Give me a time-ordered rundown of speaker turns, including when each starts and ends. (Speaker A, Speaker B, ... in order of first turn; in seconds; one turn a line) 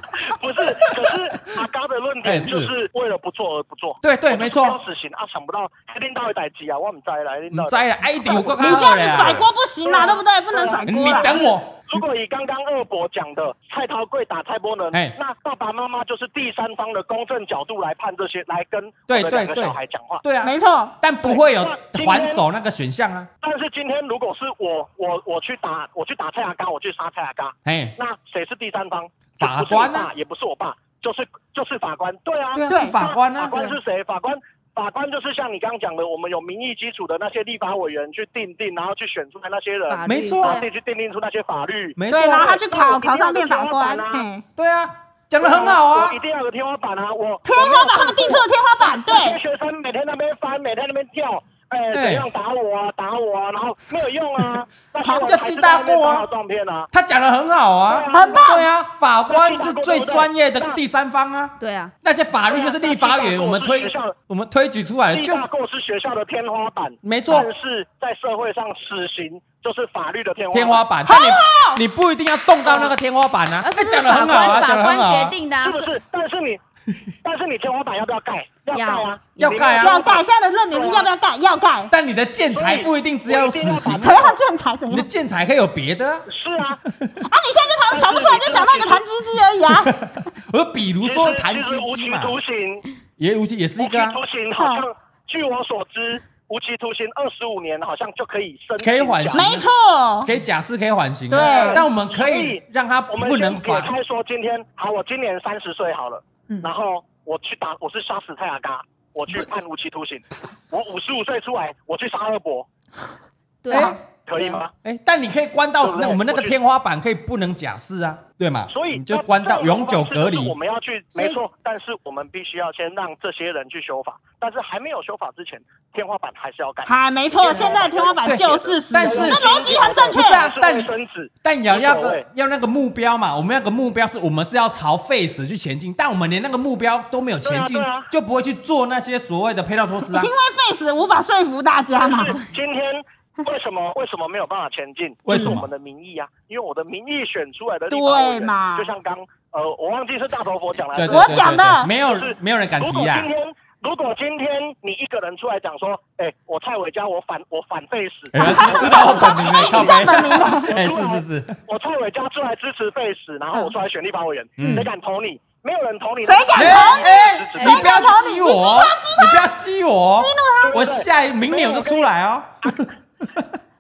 Speaker A: 0.3-7.8
Speaker B: 2.2-2.7
Speaker B: 4.0-4.8
Speaker B: 7.5-9.5
Speaker C: 8.6-11.4
Speaker A: 9.8-20.2
Speaker B: 10.9-11.8
Speaker B: 19.1-23.3
Speaker C: 20.4-20.9
Speaker A: 21.2-22.4
Speaker A: 23.4-44.3
Speaker B: 27.6-28.0
Speaker B: 29.4-30.1
Speaker B: 32.5-33.8
Speaker C: 32.7-33.0
Speaker D: 39.9-40.7
Speaker B: 40.1-40.6
Speaker B: 42.0-42.6
Speaker C: 42.1-44.5
Speaker B: 44.6-46.2
Speaker A: 45.4-56.9
Speaker C: 47.5-49.4
Speaker B: 51.9-52.3
Speaker B: 55.2-56.3
Speaker B: 56.9-65.5
Speaker A: 57.9-58.4
Speaker C: 58.1-58.6
Speaker A: 59.3-60.8
Speaker D: 61.6-61.9
Speaker A: 62.5-64.2
Speaker A: 65.1-70.8
Speaker B: 67.0-67.5
Speaker B: 70.5-75.4
Speaker C: 71.0-71.8
Speaker A: 72.7-72.9
Speaker D: 73.6-75.9
Speaker A: 75.6-76.6
Speaker A: 77.2-81.1
Speaker D: 78.7-79.6
Speaker B: 79.4-80.0
Speaker C: 79.8-81.9
Speaker B: 81.9-84.2
Speaker A: 82.5-84.4
Speaker C: 84.0-85.1
Speaker B: 84.9-86.3
Speaker A: 86.3-86.8
Speaker C: 87.2-90.0
Speaker A: 87.9-89.0
Speaker B: 89.7-92.4
Speaker A: 91.0-92.9
Speaker B: 93.2-94.2
Speaker A: 93.8-99.5
Speaker C: 94.6-94.8
Speaker B: 98.8-99.7
Speaker C: 99.3-100.3
Speaker B: 100.2-103.9
Speaker C: 101.3-101.8
Speaker A: 101.3-112.7
Speaker D: 113.6-114.6
Speaker B: 113.7-114.0
Speaker A: 113.8-114.7
Speaker B: 114.8-120.5
Speaker A: 115.8-116.5
Speaker A: 118.7-132.2
Speaker C: 126.8-130.4
Speaker B: 128.2-129.5
Speaker B: 130.1-130.9
Speaker B: 131.4-140.3
Speaker A: 137.4-138.1
Speaker C: 140.1-142.4
Speaker A: 142.0-151.4
Speaker B: 145.2-145.7
Speaker C: 147.9-148.9
Speaker B: 150.9-153.3
Speaker C: 151.1-151.9
Speaker A: 152.0-167.9
Speaker B: 158.3-161.6
Speaker C: 158.4-160.7
Speaker B: 164.6-164.9
Speaker C: 166.2-169.5
Speaker B: 166.6-173.6
Speaker C: 170.2-170.8
Speaker A: 170.6-172.1